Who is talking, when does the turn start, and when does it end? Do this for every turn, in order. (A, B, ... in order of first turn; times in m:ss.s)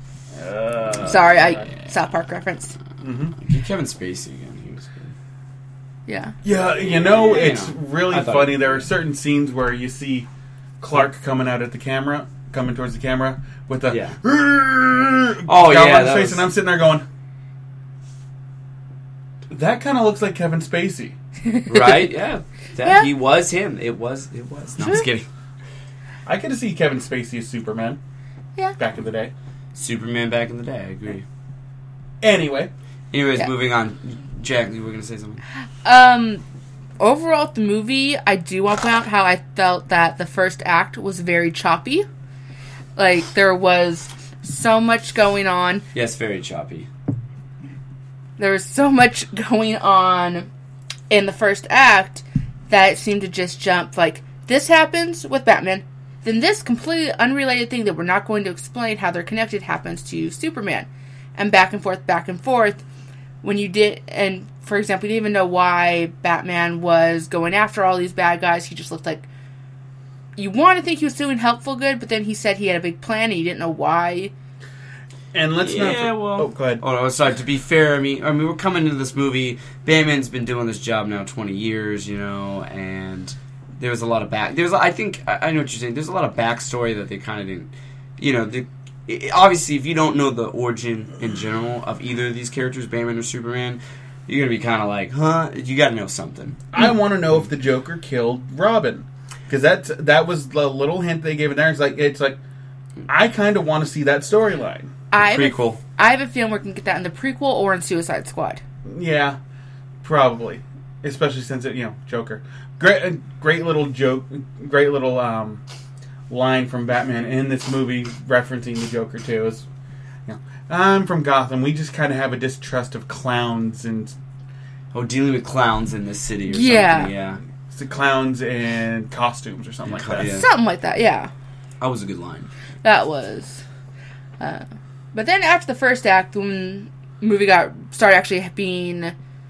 0:00.4-0:01.5 A
0:00.8-0:01.7 B
0:01.0-0:02.8 C
0:03.0-0:03.4 A
0:03.4-0:05.1 B
0:06.1-0:06.4 C
0:06.4-0:10.3 A
0:06.8-0:08.8 B
0:10.8-0:17.0 A
0:13.9-0:14.2 B
0:15.5-0:16.5 B
0:19.5-0:21.2 A
0:21.5-0:22.1 C
0:21.7-0:25.3 B
0:22.8-0:23.1 C
0:24.8-0:25.1 C
0:26.3-0:28.0 A
0:28.8-0:29.3 A
0:29.8-0:31.2 B
0:32.2-0:32.7 A
0:33.1-0:35.4 B
0:35.8-0:36.4 C
0:37.0-0:42.1 C
0:43.0-0:45.8 C
0:45.9-0:46.9 B
0:48.4-0:50.5 C
0:51.1-1:02.8 C
1:03.4-1:09.3 C
1:10.4-1:14.3 C
1:15.3-1:16.8 A
1:15.6-1:36.6 B
1:36.7-1:42.4 A
1:43.1-1:44.9 A
1:45.1-1:48.6 C
1:45.2-1:45.8 B
1:48.9-1:49.4 A
1:50.0-1:55.6 A
1:56.3-1:59.7 A
2:00.3-2:04.2 A
2:04.9-2:07.4 B
2:06.5-2:07.1 C
2:07.7-2:10.4 A
2:09.9-2:10.5 B
2:10.2-2:11.3 C
2:11.8-2:12.5 B
2:12.8-2:13.6 C
2:14.4-2:19.1 C